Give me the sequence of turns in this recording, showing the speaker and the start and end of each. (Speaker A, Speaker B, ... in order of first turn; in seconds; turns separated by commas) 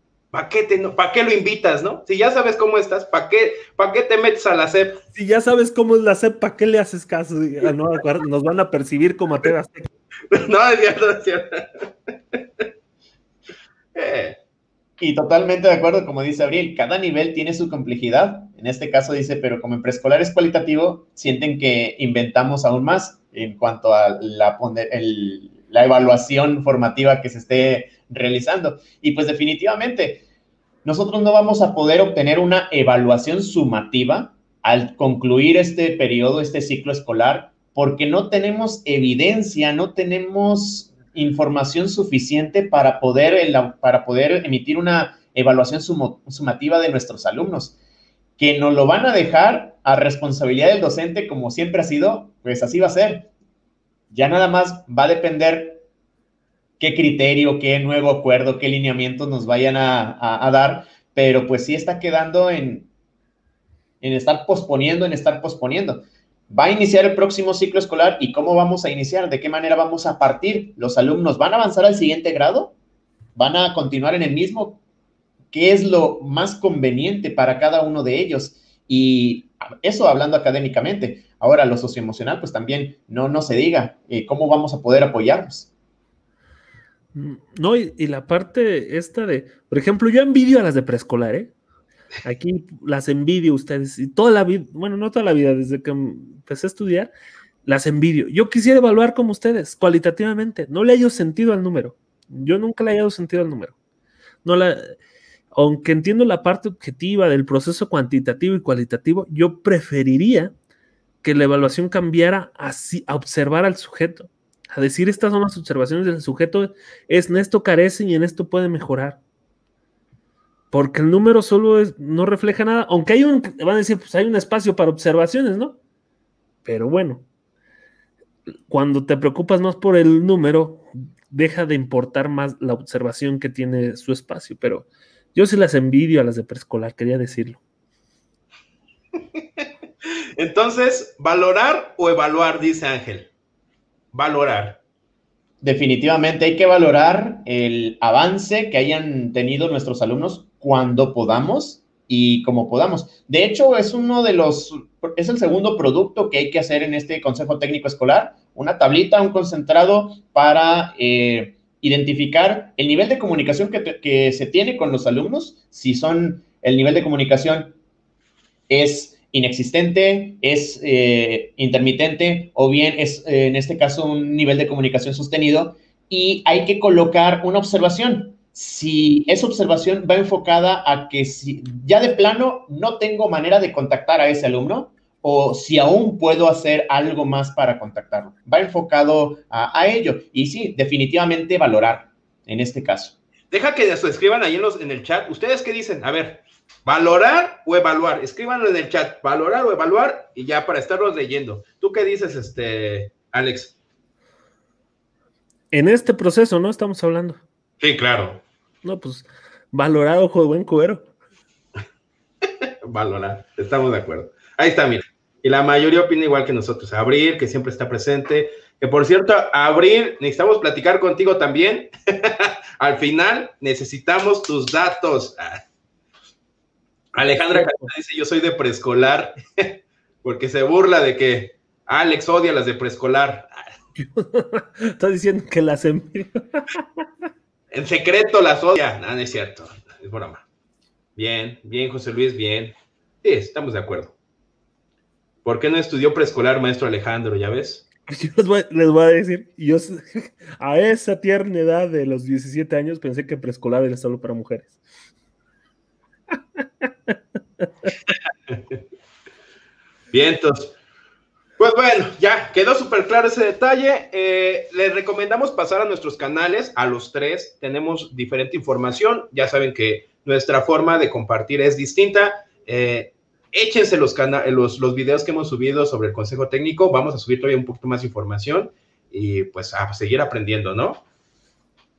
Speaker A: 0.3-5.0, Speaker B: 5.1-9.9, Speaker A: 10.3-11.9, Speaker A: 13.9-14.4, Speaker C: 15.0-30.2, Speaker C: 30.8-47.7, Speaker C: 48.4-53.3, Speaker C: 54.1-55.8, Speaker C: 56.8-62.9, Speaker C: 64.0-72.7, Speaker C: 73.3-74.8, Speaker C: 75.5-85.7, Speaker B: 87.1-91.5, Speaker B: 92.2-97.1, Speaker B: 97.6-103.7, Speaker B: 104.4-105.0, Speaker B: 105.5-110.5, Speaker B: 111.2-119.2, Speaker B: 120.7-125.8, Speaker B: 126.6-127.2, Speaker B: 128.7-137.6, Speaker A: 139.3-139.6, Speaker A: 140.4-143.3, Speaker A: 144.1-144.8, Speaker C: 145.6-167.7, Speaker C: 168.7-193.1, Speaker A: 193.5-203.7, Speaker B: 205.7-207.4, Speaker A: 207.8-208.4, Speaker B: 208.8-211.1, Speaker A: 212.8-225.6, Speaker A: 227.1-233.5, Speaker B: 227.5-227.9, Speaker B: 234.0-236.8, Speaker A: 237.7-240.4, Speaker A: 241.2-244.1, Speaker A: 245.4-247.8, Speaker B: 248.1-254.8, Speaker B: 256.8-257.1, Speaker A: 260.1-260.7, Speaker A: 261.6-281.0